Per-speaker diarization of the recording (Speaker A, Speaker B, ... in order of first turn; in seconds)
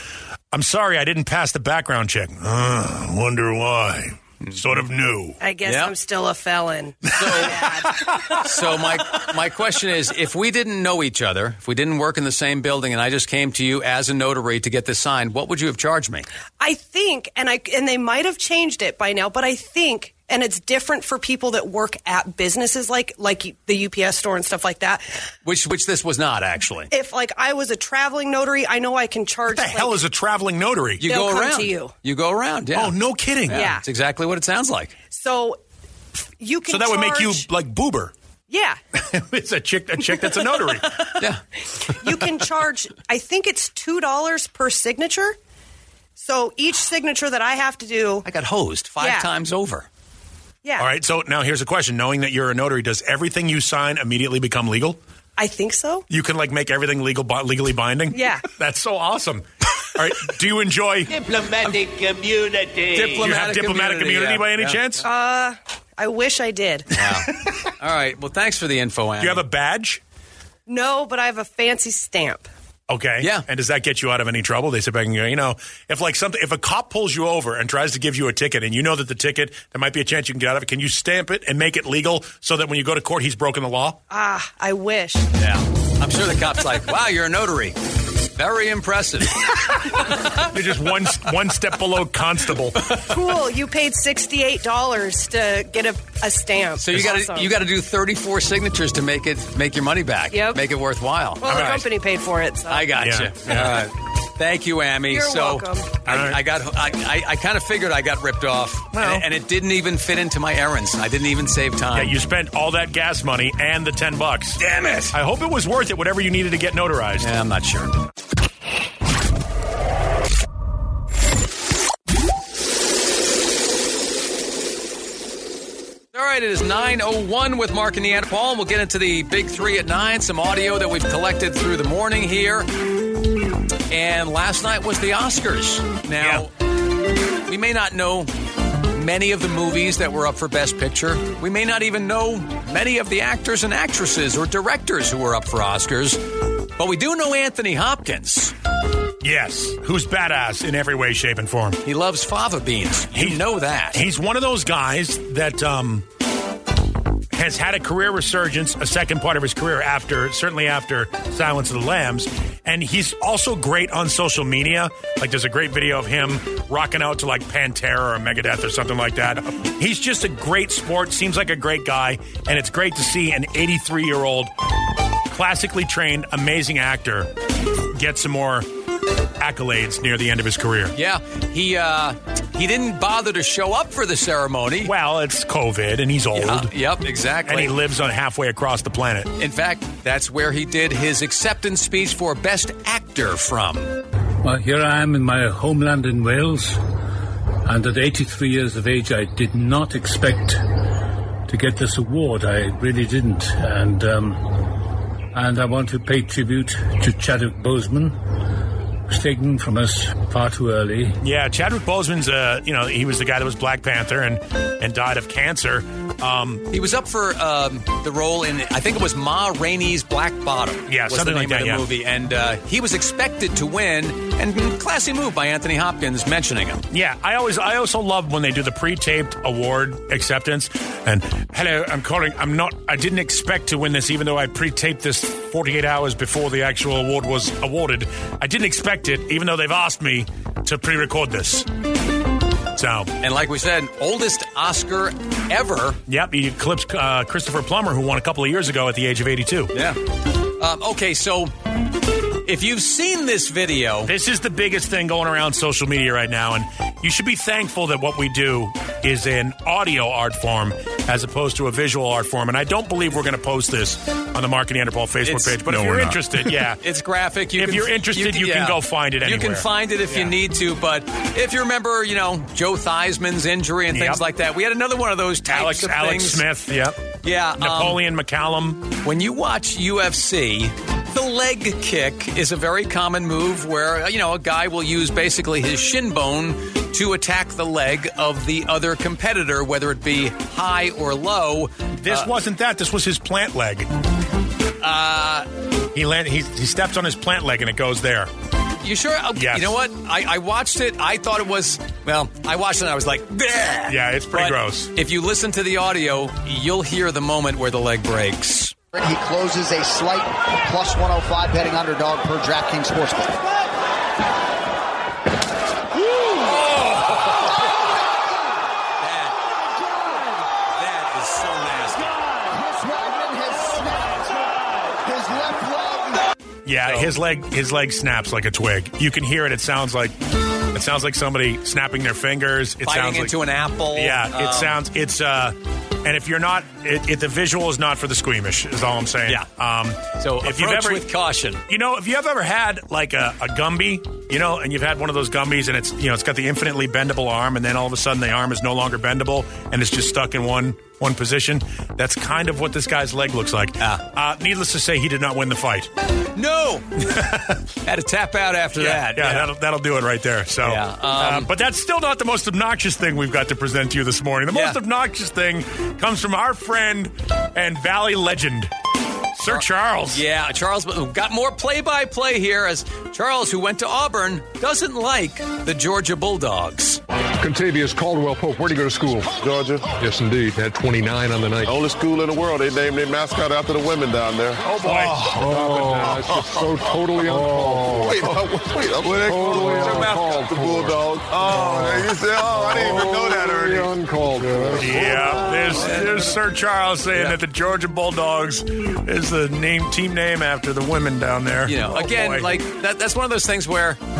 Speaker A: 0.5-5.4, 7.2-8.4, 29.5-31.0, 32.7-33.7, 36.7-38.1, 39.0-41.0, 50.8-55.0, 56.1-61.7, 63.0-65.0, 69.2-70.0, 72.9-84.0, 90.0-92.9, 101.5-101.8, 102.9-103.9, 106.0-106.4, 108.9-109.2, 111.9-114.6, 115.1-117.3, 136.2-136.5, 149.2-151.8, 153.1-156.1, 157.3-174.5, 175.3-177.3, 177.9-178.7, 179.4-180.9, 184.8-186.7, 187.4-189.3, 211.2-216.7, 220.9-221.8, 226.9-241.7, 242.7-243.1, 246.1-249.7, 254.1-266.8, 267.6-270.4, 273.9-274.2, 275.5-277.0, 277.6-278.9, 292.0-293.9, 295.9-298.3, 299.3-299.8, 303.9-304.9, 316.2-317.4, 326.6-330.2, 330.7-333.4, 333.9-341.1, 341.7-355.9, 357.1-357.6, 358.8-368.7, 369.3-370.2, 384.6-386.2, 394.8-402.6
Speaker B: 5.4-8.4, 16.6-25.1, 26.9-30.0, 31.0-31.9, 33.5-33.8, 35.1-35.6, 36.4-37.5, 38.5-38.8, 40.0-41.1, 42.0-45.4, 46.2-48.2, 49.0-49.3, 50.6-50.9, 55.4-56.0, 58.1-58.5, 65.0-66.9, 70.7-72.5, 84.1-85.2, 93.0-97.6, 100.3-100.6, 101.4-102.9, 105.1-106.0
Speaker C: 5.7-5.9, 7.1-7.6, 8.3-16.2, 25.4-26.9, 31.0-33.0, 33.5-34.9, 48.2-49.9, 61.3-64.8, 66.9-69.4, 85.3-87.8, 88.3-89.5, 96.8-101.8, 102.7-112.1, 114.6-115.1, 117.2-118.0, 126.1-132.7, 133.9-136.5, 137.4-138.3, 138.9-146.2, 146.8-148.5, 151.8-154.0, 180.9-184.9, 186.3-187.7, 189.4-194.0, 216.7-226.8, 243.2-246.0, 249.7-250.0, 250.6-251.5, 252.4-254.1, 265.2-276.4, 277.2-278.0, 279.0-292.3, 294.8-295.5, 298.8-308.7, 319.0-319.4, 320.7-322.2, 326.8-327.1, 332.8-334.7, 340.2-341.6, 356.3-357.2, 357.8-359.5, 360.6-361.5, 364.5-364.8, 369.5-377.0, 389.7-390.2, 395.7-396.2, 401.7-404.0
Speaker D: 194.4-196.8, 197.6-200.6, 201.5-204.4, 205.3-208.1, 209.1-211.2
Speaker E: 308.9-313.3, 322.3-326.3
Speaker F: 377.4-379.3, 379.9-381.8, 384.7-388.4, 389.0-395.7
Speaker G: 379.4-379.9, 381.6-384.6, 386.0-386.6, 387.3-395.6